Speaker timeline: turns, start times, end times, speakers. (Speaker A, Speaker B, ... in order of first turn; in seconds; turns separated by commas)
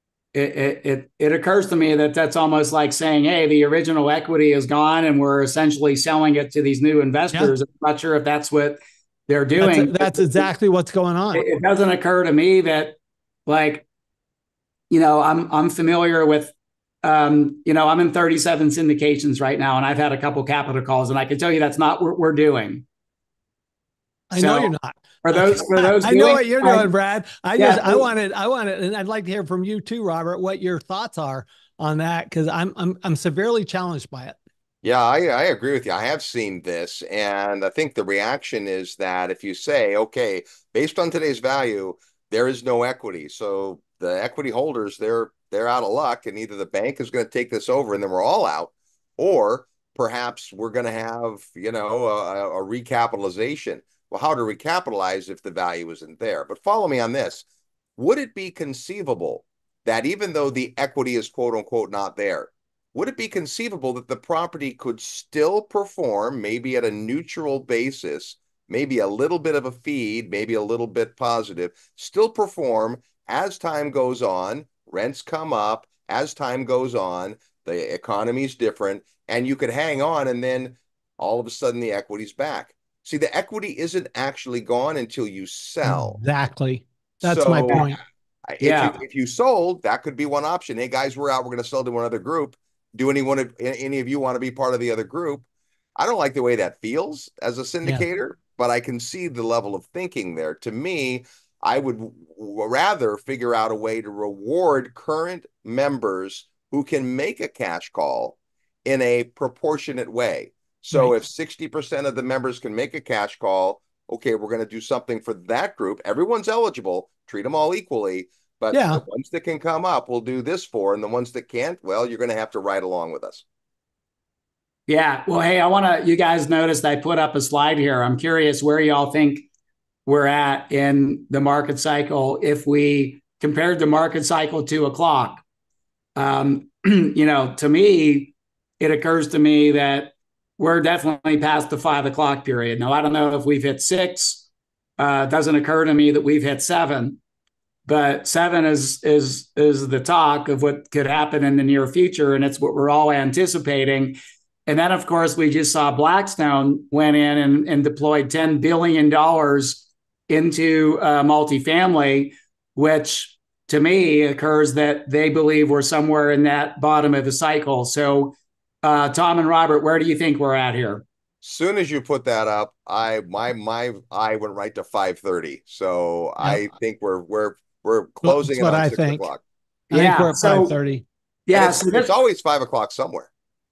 Speaker A: 0.3-10.5, Speaker B: 9.6-11.5, Speaker A: 11.3-12.9, Speaker A: 13.4-13.8, Speaker A: 14.9-22.8, Speaker B: 24.3-34.4, Speaker A: 24.4-26.9, Speaker A: 27.6-28.1, Speaker C: 34.8-57.4, Speaker C: 58.0-86.2, Speaker B: 85.8-88.0, Speaker C: 87.2-87.9, Speaker C: 88.5-95.4, Speaker A: 88.6-89.0, Speaker C: 96.0-123.4, Speaker B: 118.7-119.0, Speaker A: 124.9-129.5, Speaker A: 130.1-135.4, Speaker A: 136.2-144.4, Speaker A: 145.0-147.2, Speaker A: 147.8-171.0, Speaker C: 171.4-179.4, Speaker B: 178.2-179.3, Speaker B: 179.9-181.0, Speaker A: 179.9-180.7, Speaker A: 181.5-182.1, Speaker C: 181.5-183.3